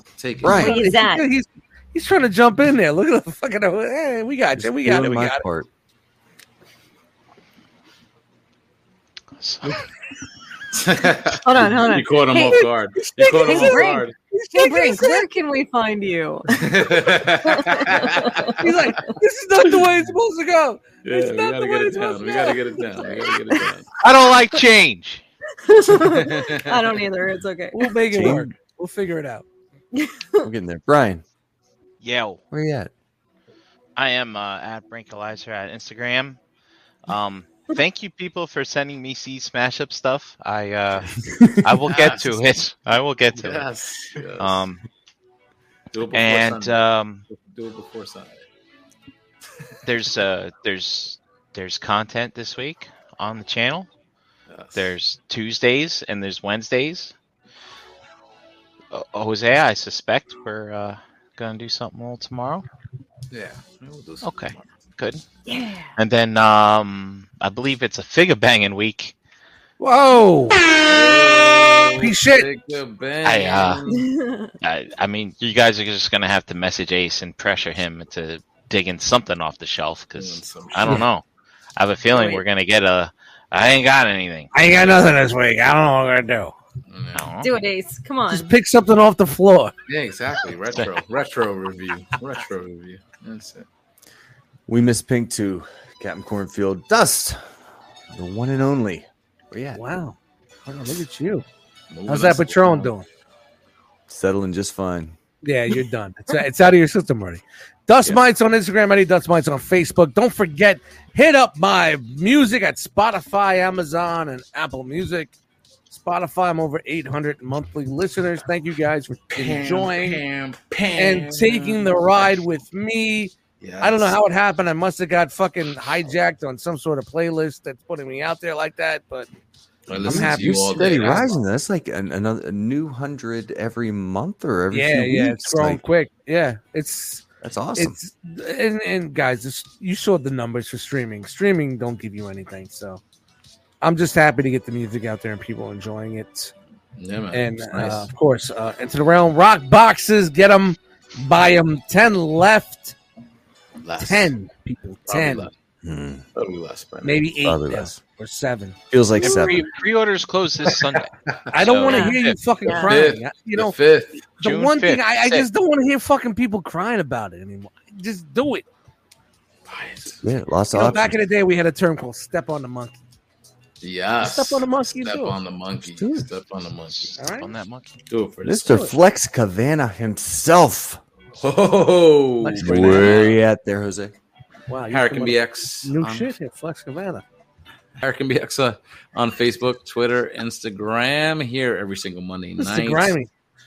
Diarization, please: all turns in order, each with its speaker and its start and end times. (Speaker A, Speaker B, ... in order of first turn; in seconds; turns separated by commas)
Speaker A: 0.2-0.7, Speaker B: 0.4-0.8, Speaker C: 0.4-5.5, Speaker D: 0.5-1.2, Speaker B: 4.6-5.7, Speaker E: 9.4-9.8, Speaker A: 10.7-14.1, Speaker D: 11.4-12.7, Speaker C: 12.5-15.2, Speaker D: 13.4-18.9, Speaker A: 16.5-18.6, Speaker C: 18.6-22.3, Speaker A: 21.0-23.9, Speaker D: 21.2-23.7, Speaker E: 24.0-25.2, Speaker D: 25.6-28.3, Speaker A: 26.0-27.1, Speaker C: 27.7-29.4, Speaker B: 28.1-28.5, Speaker D: 29.9-30.5, Speaker B: 30.4-31.2, Speaker E: 32.0-32.4, Speaker B: 32.5-32.9, Speaker E: 34.0-36.4, Speaker E: 37.1-43.7, Speaker A: 41.9-42.5, Speaker A: 43.3-44.6, Speaker E: 44.4-44.8, Speaker A: 45.9-46.8, Speaker E: 46.1-47.2, Speaker A: 47.3-48.4, Speaker E: 49.9-53.9, Speaker A: 54.5-54.9, Speaker E: 54.8-57.1, Speaker E: 58.9-62.6, Speaker A: 63.3-64.7, Speaker E: 64.2-65.2, Speaker D: 65.5-65.9, Speaker E: 66.0-69.2, Speaker C: 69.8-70.6, Speaker A: 70.7-74.1, Speaker C: 72.0-72.5, Speaker E: 73.2-73.8, Speaker D: 73.9-74.5, Speaker E: 74.6-81.2, Speaker A: 80.2-81.0, Speaker E: 81.8-84.7, Speaker D: 82.1-82.4, Speaker C: 84.5-86.5, Speaker A: 86.9-87.3, Speaker E: 87.1-87.5, Speaker D: 87.4-88.5, Speaker C: 88.3-89.7, Speaker A: 89.9-93.7, Speaker B: 94.7-97.4, Speaker B: 98.1-99.8, Speaker C: 99.8-101.5, Speaker A: 101.9-102.9, Speaker C: 102.1-103.1, Speaker B: 104.1-105.2, Speaker C: 105.4-115.3, Speaker C: 115.9-120.2, Speaker A: 119.3-122.0, Speaker C: 121.0-129.3, Speaker A: 123.6-124.2, Speaker A: 129.9-131.3, Speaker C: 130.0-130.9, Speaker B: 130.0-135.8, Speaker C: 134.7-137.2, Speaker B: 137.4-138.0, Speaker C: 137.8-143.0, Speaker C: 143.8-146.5, Speaker A: 147.0-148.1, Speaker C: 147.3-153.0, Speaker A: 153.8-154.3, Speaker C: 154.0-155.5, Speaker A: 155.1-155.5, Speaker B: 155.8-156.2, Speaker A: 156.3-157.3, Speaker C: 157.0-158.8, Speaker B: 157.4-158.0, Speaker B: 158.9-159.6, Speaker E: 159.2-162.1, Speaker A: 161.3-164.3, Speaker C: 161.5-163.8, Speaker D: 161.9-163.0, Speaker C: 164.3-168.7, Speaker E: 164.4-165.5, Speaker A: 169.7-170.2, Speaker B: 170.2-171.2, Speaker C: 170.7-173.0, Speaker A: 173.8-177.2, Speaker C: 174.2-175.4, Speaker B: 175.9-176.3, Speaker E: 176.9-178.0, Speaker C: 177.2-177.5, Speaker A: 178.1-178.9, Speaker B: 178.4-181.0, Speaker C: 178.7-178.9, Speaker A: 181.4-183.4, Speaker C: 182.4-183.2, Speaker B: 182.6-184.2, Speaker C: 184.7-187.2, Speaker A: 184.9-186.3, Speaker A: 188.0-193.2, Speaker C: 192.6-193.3